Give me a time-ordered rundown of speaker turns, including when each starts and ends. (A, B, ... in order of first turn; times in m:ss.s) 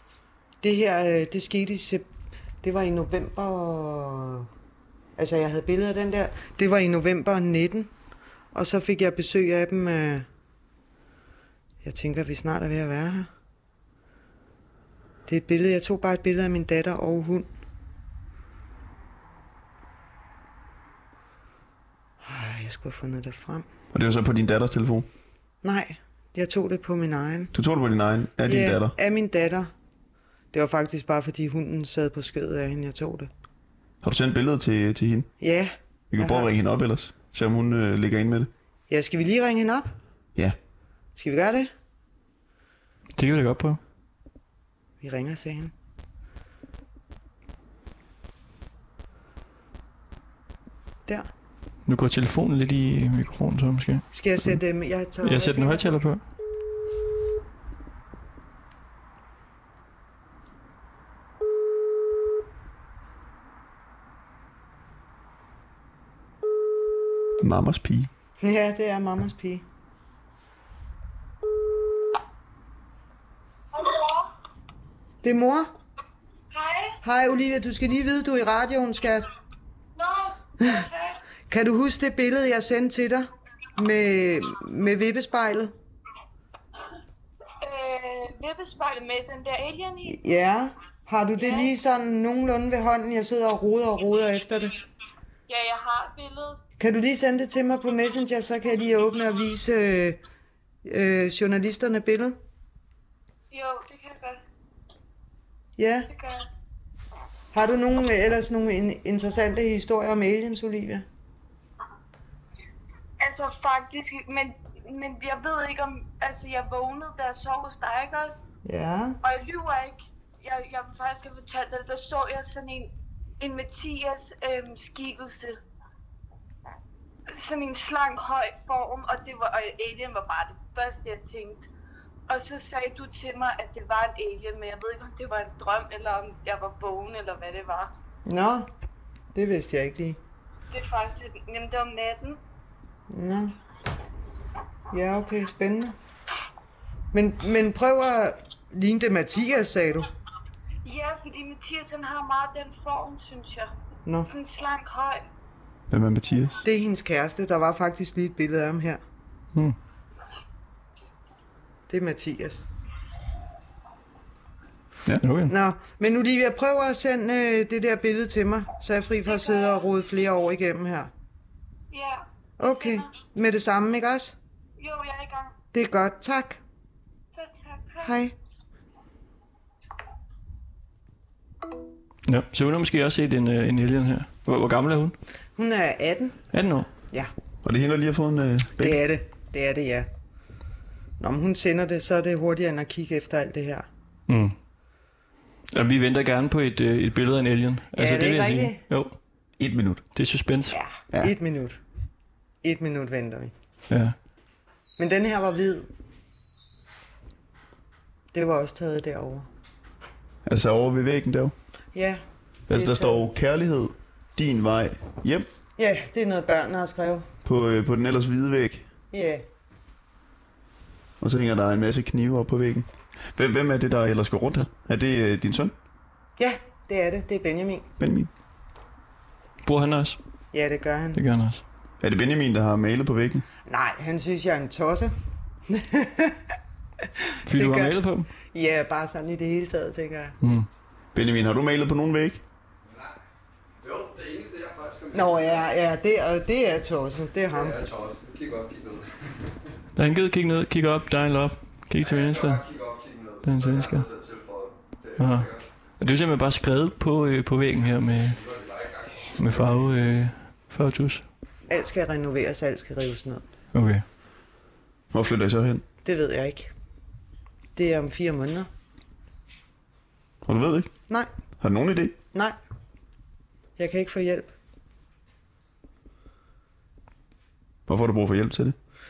0:00.6-0:02.1 A
0:02.6-0:04.5 A
0:05.2-0:07.9 A
0:08.5-0:10.3 A
0:11.8-0:13.3 A
0:15.3-0:17.5 A
0:22.2-0:23.7 A
0:23.9-0:25.1 B
0:25.6-0:27.5 A
0:27.5-0:29.0 B
0:28.5-0:29.7 A
0:30.5-0:33.3 A
0:34.0-0:35.3 B
0:35.4-0:36.5 A
0:36.1-0:38.5 B
0:38.9-0:39.9 A
0:41.2-0:41.7 A
0:43.2-0:43.8 C
0:45.0-0:45.7 A
0:51.9-0:54.5 C
0:54.1-0:56.0 A
0:55.2-0:56.2 C
1:07.4-1:08.1 B
1:08.4-1:09.6 A
1:13.8-1:14.3 D
1:15.2-1:15.7 A
1:16.5-1:17.0 D
1:17.0-1:19.3 A
1:20.0-1:21.2 D
1:20.6-1:20.9 A
1:21.5-1:25.7 A
1:27.6-1:30.2 D
1:30.1-1:34.7 A
1:31.4-1:31.7 D
1:35.5-1:36.6 D
1:36.8-1:40.2 A
1:40.8-1:42.4 A
1:43.5-1:44.4 D
1:45.8-1:46.1 A
1:46.1-1:46.5 D
1:47.5-1:51.0 A
1:53.2-1:58.4 D
1:58.6-1:59.2 A
1:59.2-2:05.6 D
2:07.3-2:11.7 D
2:12.3-2:17.9 D
2:18.3-2:18.7 A
2:19.4-2:20.2 A
2:20.7-2:22.4 D
2:23.1-2:23.6 A
2:24.9-2:26.0 A
2:27.1-2:30.1 A
2:30.8-2:33.7 D
2:34.3-2:35.2 D
2:35.9-2:36.6 B
2:36.6-2:39.0 A
2:41.9-2:42.6 A
2:45.2-2:45.5 C
2:45.5-2:51.1 A
2:49.3-2:49.8 D
2:51.9-2:53.1 D
2:52.6-2:54.4 A
2:54.8-2:55.6 D
2:55.7-2:56.6 A
2:57.3-2:58.2 D
2:58.0-2:58.3 A
3:02.3-3:05.2 C
3:05.6-3:06.4 A
3:06.5-3:06.9 C
3:07.6-3:09.0 B
3:08.8-3:10.1 A
3:11.2-3:13.9 A
3:14.3-3:14.6 C
3:15.7-3:19.2 C
3:18.0-3:18.8 A
3:19.6-3:20.0 B
3:20.2-3:20.8 C
3:20.7-3:21.8 A
3:22.6-3:23.5 A
3:23.9-3:24.2 C
3:25.0-3:25.9 A
3:28.3-3:29.5 A
3:30.4-3:31.5 B
3:31.9-3:32.2 A
3:32.7-3:35.5 B
3:32.7-3:33.3 A
3:35.8-3:37.3 A
3:37.4-3:38.9 B
3:39.1-3:39.4 A
3:41.2-3:45.7 B
3:46.4-3:47.9 A
3:48.0-3:48.3 B
3:49.6-3:50.2 C
3:50.5-3:51.2 A
3:51.2-3:51.6 C
3:52.0-3:53.5 B
3:53.7-3:55.1 A
3:55.7-3:56.5 A
3:57.0-3:58.0 A
3:57.5-3:58.3 C
3:58.5-4:00.4 A
4:00.4-4:00.7 C
4:01.1-4:02.4 B
4:03.8-4:05.7 E
4:05.1-4:07.8 A
4:07.5-4:09.1 E
4:10.0-4:12.6 C
4:12.0-4:15.7 E
4:13.4-4:14.1 C
4:15.2-4:18.4 C
4:18.2-4:19.8 E
4:19.4-4:21.2 C
4:21.7-4:23.4 A
4:23.7-4:24.0 C
4:25.1-4:25.8 B
4:26.0-4:26.7 A
4:27.8-4:28.7 A
4:30.4-4:30.9 B
4:31.6-4:32.2 B
4:33.8-4:34.5 A
4:37.9-4:38.8 B